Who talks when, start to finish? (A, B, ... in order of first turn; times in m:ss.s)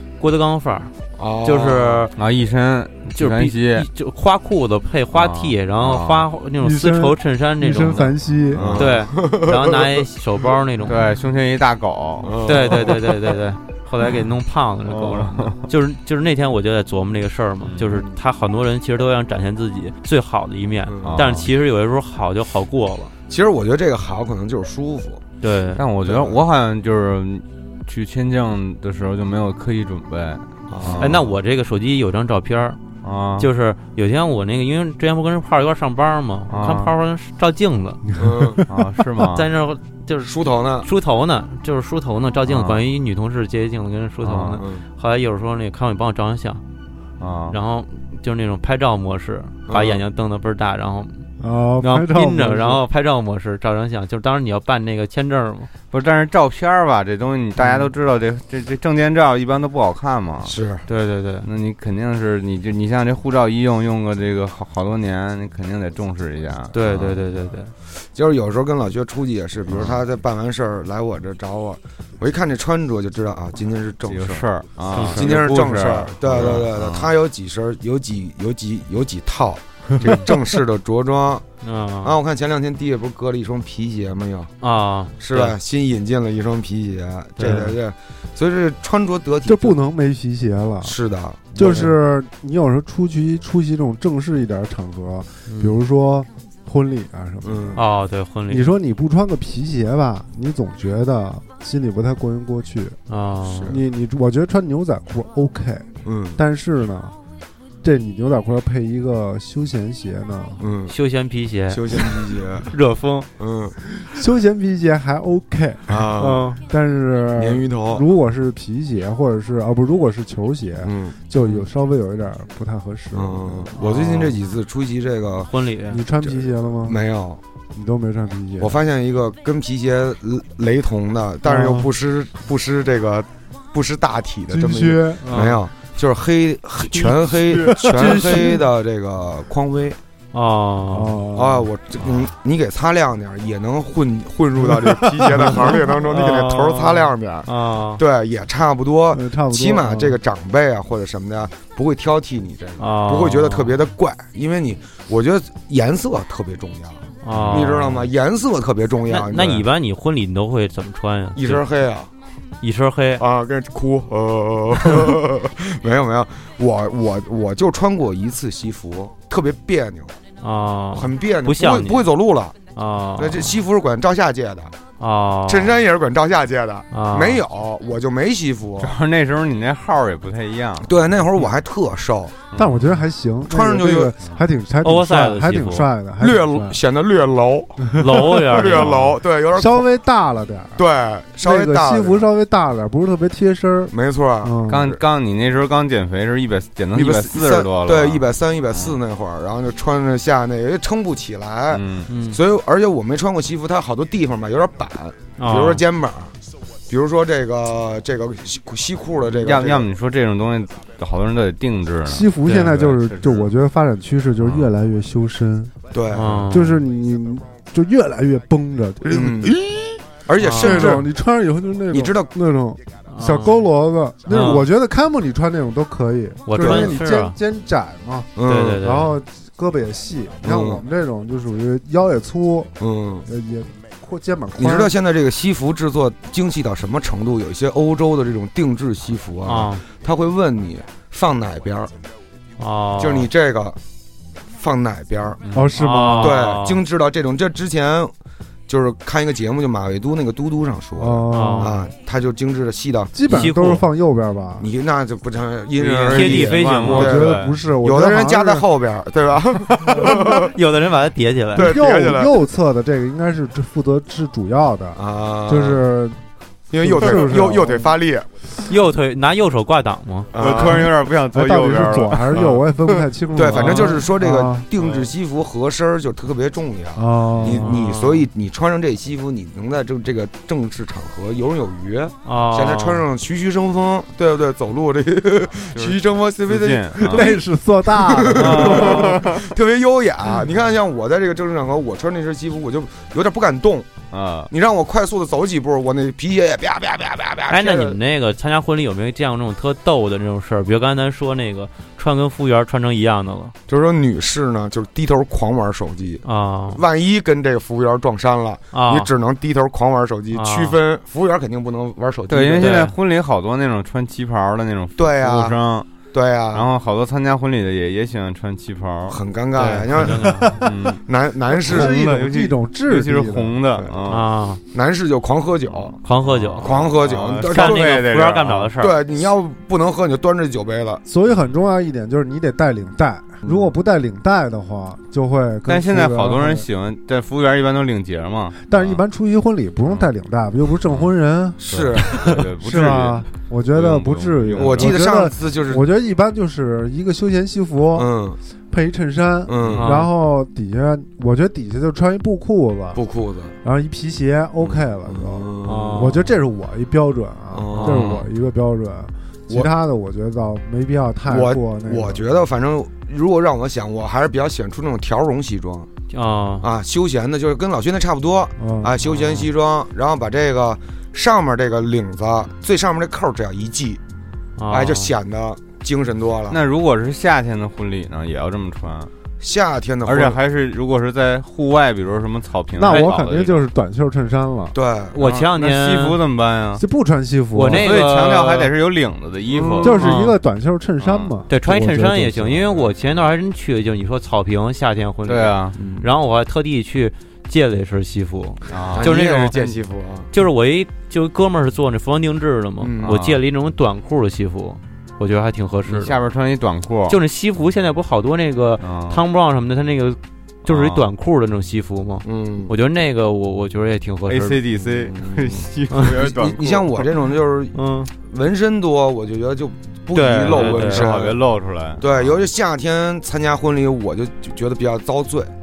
0:00.2-0:00.9 A
0:01.2-0:02.1 B
0:01.4-0:02.1 A
0:02.2-0:03.9 C
0:03.2-0:08.1 A
0:05.1-0:06.3 C
0:06.6-0:08.7 D
0:08.5-0:08.9 C
0:08.6-0:09.9 B
0:08.8-0:11.0 A
0:10.9-0:12.8 C
0:12.2-0:13.0 B
0:12.4-0:23.1 A
0:14.9-0:15.6 C
0:17.6-0:17.9 C
0:17.9-0:18.1 B
0:20.9-0:21.3 B
0:21.0-0:21.5 C
0:23.3-0:25.2 B
0:25.4-0:25.8 A
0:25.8-0:31.1 C
0:26.0-0:26.4 B
0:30.7-0:31.2 B
0:31.0-0:32.8 A
0:33.0-0:33.5 C
0:33.4-0:38.0 A
0:36.5-0:36.9 C
0:38.1-0:38.6 D
0:38.2-0:38.6 B
0:38.7-0:39.5 C
0:39.2-0:46.6 A
0:40.2-0:40.9 B
0:42.5-0:42.8 C
0:44.2-0:44.6 C
0:47.2-0:47.6 C
0:47.5-0:51.3 A
0:49.7-0:50.0 B
0:51.4-0:52.8 D
0:51.8-0:55.7 A
0:55.9-1:00.6 C
1:00.4-1:00.8 B
1:00.9-1:01.5 A
1:01.4-1:07.1 C
1:06.7-1:07.7 A
1:08.2-1:14.5 B
1:09.7-1:10.0 C
1:14.1-1:17.1 C
1:14.9-1:15.3 A
1:15.0-1:21.4 B
1:16.4-1:16.7 A
1:21.6-1:22.2 A
1:22.0-1:24.5 B
1:24.6-1:25.6 A
1:25.2-1:29.8 B
1:27.4-1:27.7 A
1:29.4-1:31.0 D
1:30.8-1:31.9 B
1:31.5-1:37.8 D
1:35.5-1:35.8 A
1:37.4-1:37.8 B
1:37.7-1:38.7 A
1:38.5-1:43.0 D
1:43.1-1:43.8 A
1:43.4-1:43.8 B
1:43.7-1:47.2 D
1:46.0-1:46.4 B
1:47.8-1:50.6 D
1:50.6-1:50.9 B
1:50.9-1:52.1 A
1:51.7-1:52.7 B
1:52.7-1:53.3 A
1:53.4-1:53.8 B
1:54.0-2:03.8 D
1:55.9-1:56.5 B
1:56.2-1:56.6 A
1:57.4-1:58.0 B
2:00.8-2:01.6 B
2:03.1-2:05.5 B
2:03.8-2:04.4 A
2:05.4-2:06.0 A
2:05.9-2:07.0 D
2:06.2-2:07.4 B
2:07.7-2:08.8 D
2:08.6-2:20.0 B
2:11.4-2:11.9 D
2:14.5-2:15.4 D
2:15.2-2:15.6 A
2:17.0-2:18.7 D
2:20.3-2:21.2 A
2:20.9-2:21.7 D
2:21.3-2:39.7 B
2:24.6-2:25.8 D
2:26.1-2:28.0 A
2:29.1-2:30.2 D
2:32.8-2:33.7 A
2:37.2-2:38.0 A
2:37.3-2:38.0 C
2:39.1-2:41.6 A
2:41.4-2:42.1 B
2:42.6-2:43.2 A
2:43.2-2:50.2 B
2:50.4-2:52.1 A
2:50.9-2:52.6 B
2:52.7-2:53.5 A
2:53.2-2:54.7 B
2:55.0-2:55.8 A
2:55.5-2:58.9 B
2:56.9-2:57.4 A
2:58.8-3:00.9 C
3:00.8-3:02.3 B
3:02.5-3:03.0 C
3:02.5-3:06.8 D
3:03.5-3:04.2 B
3:04.8-3:05.9 A
3:06.2-3:09.8 B
3:07.9-3:08.9 D
3:08.0-3:09.0 A
3:09.5-3:10.8 D
3:10.8-3:12.3 B
3:11.4-3:14.9 D
3:13.9-3:15.0 B
3:14.7-3:19.0 C
3:16.9-3:26.3 B
3:21.7-3:22.1 C
3:22.1-3:22.4 A
3:25.4-3:25.8 A
3:26.9-3:29.9 B
3:29.4-3:33.5 C
3:32.1-3:35.8 D
3:32.4-3:32.7 A
3:34.4-3:34.7 C
3:35.9-3:36.5 B
3:36.1-3:36.8 A
3:36.5-3:39.6 D
3:39.0-3:41.1 B
3:40.4-3:40.9 A
3:40.5-3:54.9 D
3:41.9-3:42.3 B
3:43.1-3:43.6 A
3:44.3-3:44.7 A
3:46.4-3:47.4 A
3:46.6-3:46.9 B
3:48.4-3:48.8 B
3:48.4-3:49.2 A
3:50.4-3:50.8 B
3:52.8-3:53.3 B
3:54.6-4:01.9 B
3:59.4-3:59.8 A
4:02.6-4:03.3 A
4:03.0-4:03.8 B
4:04.5-4:05.4 B
4:05.4-4:05.7 C
4:05.5-4:06.4 D
4:05.8-4:06.8 A
4:06.2-4:08.1 B
4:08.7-4:13.2 B
4:11.0-4:11.9 D
4:11.3-4:11.7 A
4:13.1-4:14.7 D
4:13.3-4:13.8 A
4:14.6-4:20.5 B
4:15.8-4:17.6 C
4:16.1-4:17.2 A
4:16.8-4:18.7 D
4:19.9-4:20.3 D
4:20.0-4:21.7 A
4:21.5-4:26.2 D
4:21.6-4:22.4 B
4:24.9-4:25.8 B
4:26.7-4:28.3 B
4:26.8-4:28.0 D
4:28.7-4:30.3 A
4:30.3-4:30.9 B
4:30.3-4:33.0 C
4:31.3-4:34.7 D
4:33.3-4:53.9 B
4:33.5-4:33.9 A
4:36.9-4:37.7 D
4:37.4-4:37.7 C
4:37.5-4:38.3 A
4:42.2-4:43.0 A
4:45.7-4:47.4 C
4:47.0-4:49.2 D
4:48.3-4:49.4 C
4:48.4-4:48.9 A
4:54.1-4:54.5 C
4:54.5-4:58.0 B
4:57.5-5:03.5 A
5:03.7-5:12.9 B
5:06.2-5:06.8 A
5:08.7-5:09.1 A
5:10.3-5:10.8 A
5:12.3-5:15.9 C
5:12.6-5:12.9 A
5:15.0-5:15.6 B
5:16.1-5:16.7 B
5:16.5-5:19.8 C
5:19.1-5:22.0 B
5:19.6-5:20.6 A
5:20.5-5:21.0 C
5:21.5-5:23.8 D
5:21.6-5:24.3 C
5:24.1-5:24.6 A
5:24.7-5:26.0 B
5:25.8-5:28.7 C
5:26.0-5:26.8 A
5:26.6-5:28.0 B
5:27.4-5:28.9 A
5:28.8-5:31.0 B
5:31.1-5:36.7 D
5:33.4-5:33.7 B
5:35.7-5:39.0 C
5:38.7-5:48.1 D
5:41.6-5:42.4 B
5:41.7-5:45.0 C
5:44.6-5:45.9 B
5:47.9-5:48.4 B
5:48.7-5:53.0 D
5:49.4-5:49.9 B
5:49.8-5:50.1 A
5:52.9-5:53.6 B
5:53.6-6:02.2 D
5:54.6-5:56.2 B
5:55.6-5:56.3 A
5:57.5-5:58.2 B
5:57.7-5:58.2 A
6:01.3-6:05.9 B
6:06.1-6:06.7 A
6:06.6-6:14.0 B
6:08.6-6:09.0 D
6:09.1-6:09.5 A
6:14.6-6:15.1 A
6:14.7-6:16.6 B
6:16.5-6:19.1 C
6:19.4-6:20.4 B
6:20.0-6:23.7 C
6:22.7-6:24.8 D
6:24.7-6:25.2 B
6:25.1-6:26.2 A
6:25.2-6:26.8 C
6:26.8-6:27.9 D
6:27.5-6:28.7 A
6:27.6-6:30.0 C
6:29.6-6:29.9 B
6:29.8-6:32.8 D
6:29.9-6:30.3 A
6:31.0-6:31.3 C
6:31.5-6:39.6 A
6:35.3-6:35.8 C
6:35.8-6:36.1 B
6:38.7-6:39.1 C
6:38.9-6:40.3 B
6:40.3-6:46.2 A
6:42.8-6:43.2 B
6:43.0-6:43.4 C
6:45.8-6:47.2 C
6:47.1-6:54.6 A
6:48.8-6:49.2 C
6:50.7-6:51.1 C
6:52.2-6:52.7 B
6:54.3-6:57.1 C
6:54.8-7:01.4 B
6:57.7-6:58.1 A
7:00.1-7:01.1 A
7:00.5-7:02.4 C
7:02.0-7:05.5 B